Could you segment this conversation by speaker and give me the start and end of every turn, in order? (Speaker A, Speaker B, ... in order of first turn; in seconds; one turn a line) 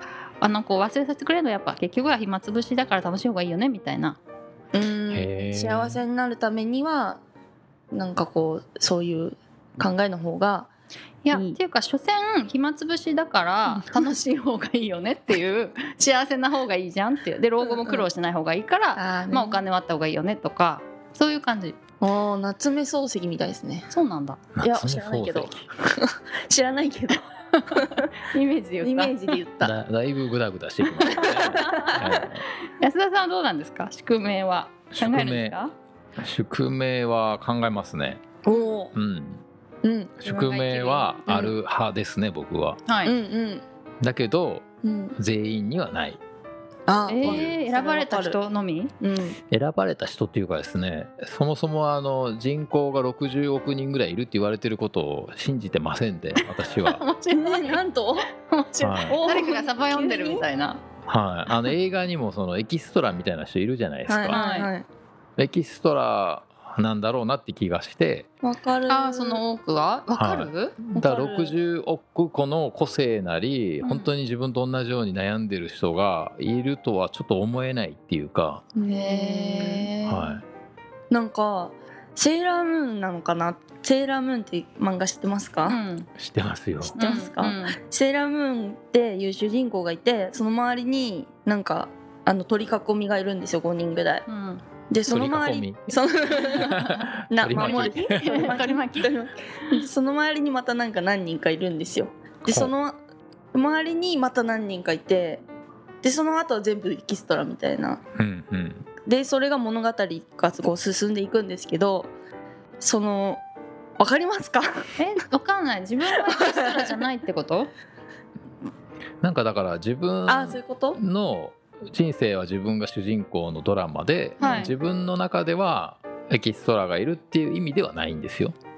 Speaker A: 0.4-4.2
Speaker B: 4.7-7.2
Speaker C: 5.1-6.0
Speaker B: 7.9-10.7
Speaker A: 11.2-21.8
Speaker B: 11.3-11.6
Speaker B: 13.7-14.1
Speaker B: 17.6-18.1
Speaker B: 19.0-19.6
Speaker B: 22.0-23.9
Speaker A: 23.9-24.4
Speaker C: 24.6-25.7
Speaker B: 24.6-28.1
Speaker A: 27.6-29.2
Speaker B: 28.8-29.8
Speaker C: 29.6-32.5
Speaker A: 30.8-32.0
Speaker B: 31.1-32.3
Speaker A: 32.6-35.7
Speaker C: 34.9-35.6
Speaker C: 36.2-38.3
Speaker B: 38.5-39.0
Speaker C: 38.9-39.4
Speaker B: 39.8-40.1
Speaker C: 40.2-42.8
Speaker A: 40.2-41.3
Speaker B: 41.3-41.5
Speaker A: 42.9-43.1
Speaker B: 43.0-43.6
Speaker C: 44.0-46.2
Speaker B: 44.8-45.2
Speaker B: 46.9-48.4
Speaker A: 47.1-48.9
Speaker C: 47.2-47.6
Speaker B: 49.0-49.4
Speaker C: 49.5-57.0
Speaker A: 56.7-57.8
Speaker B: 57.3-58.3
Speaker A: 58.4-60.8
Speaker C: 58.8-59.2
Speaker B: 59.1-60.5
Speaker C: 61.1-64.4
Speaker B: 64.1-64.9
Speaker A: 64.3-64.7
Speaker C: 65.4-68.3
Speaker B: 68.4-69.4
Speaker A: 68.9-70.8
Speaker C: 70.2-78.7
Speaker B: 71.0-71.5
Speaker A: 73.8-74.1
Speaker B: 78.8-80.0
Speaker A: 78.9-80.3
Speaker C: 80.0-80.4
Speaker B: 81.1-85.8
Speaker A: 85.7-86.1
Speaker C: 86.2-87.0
Speaker B: 86.9-94.3
Speaker A: 87.0-87.8
Speaker A: 94.3-94.6
Speaker B: 94.9-103.0
Speaker C: 95.1-96.0
Speaker C: 96.5-98.5
Speaker A: 96.7-99.1
Speaker B: 103.5-105.4
Speaker B: 106.0-108.0
Speaker C: 108.2-108.8
Speaker B: 109.1-112.1
Speaker B: 112.8-113.4
Speaker B: 114.0-114.7
Speaker A: 115.0-117.7
Speaker B: 116.2-116.9
Speaker C: 119.2-128.5
Speaker B: 120.3-121.0
Speaker A: 124.4-124.7